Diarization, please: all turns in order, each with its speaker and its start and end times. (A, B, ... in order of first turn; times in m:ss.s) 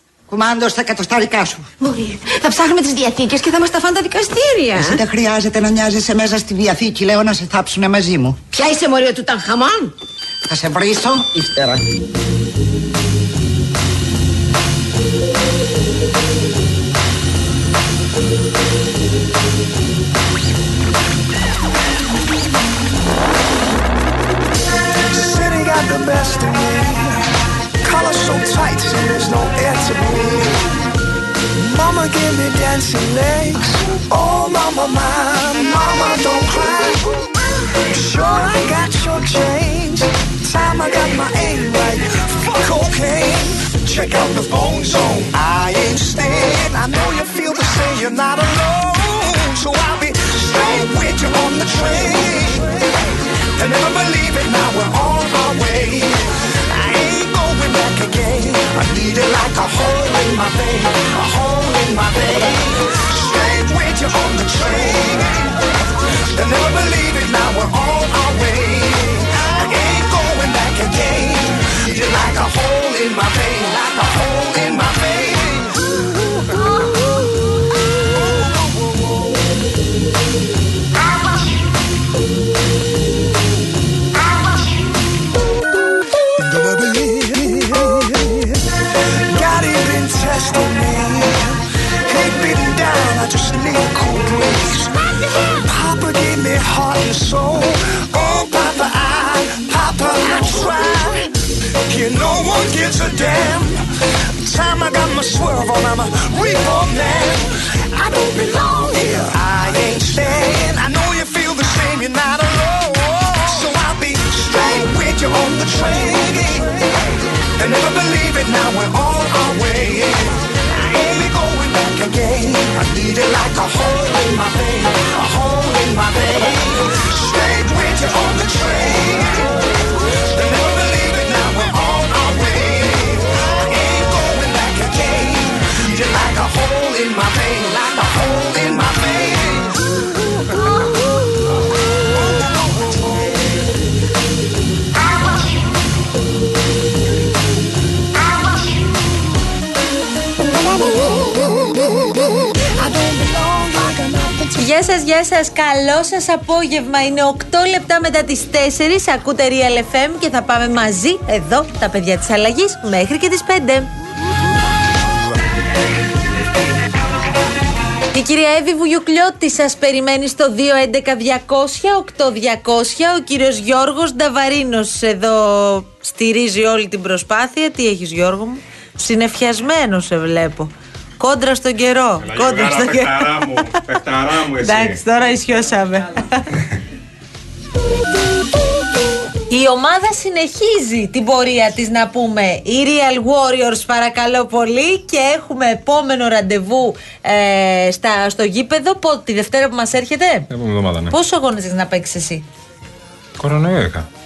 0:00.3-0:01.7 A
0:01.8-0:05.0 B
0:05.0-0:08.4 A
0:08.5-0:09.9 B
0:10.4-0:11.8 A
0:25.1-0:27.2 C
0:27.8-0:30.8 C
0:31.6-0:37.3 C
0:37.9-1:15.9 C
1:26.4-2:09.6 C
2:10.2-2:19.9 C
2:32.8-2:34.5 C
2:34.6-2:43.9 D
2:48.1-3:03.9 D
3:02.2-3:05.0 E
3:04.5-3:06.5 D
3:09.5-3:20.5 D
3:20.5-3:21.1 E
3:21.1-3:22.4 D
3:23.4-3:24.1 E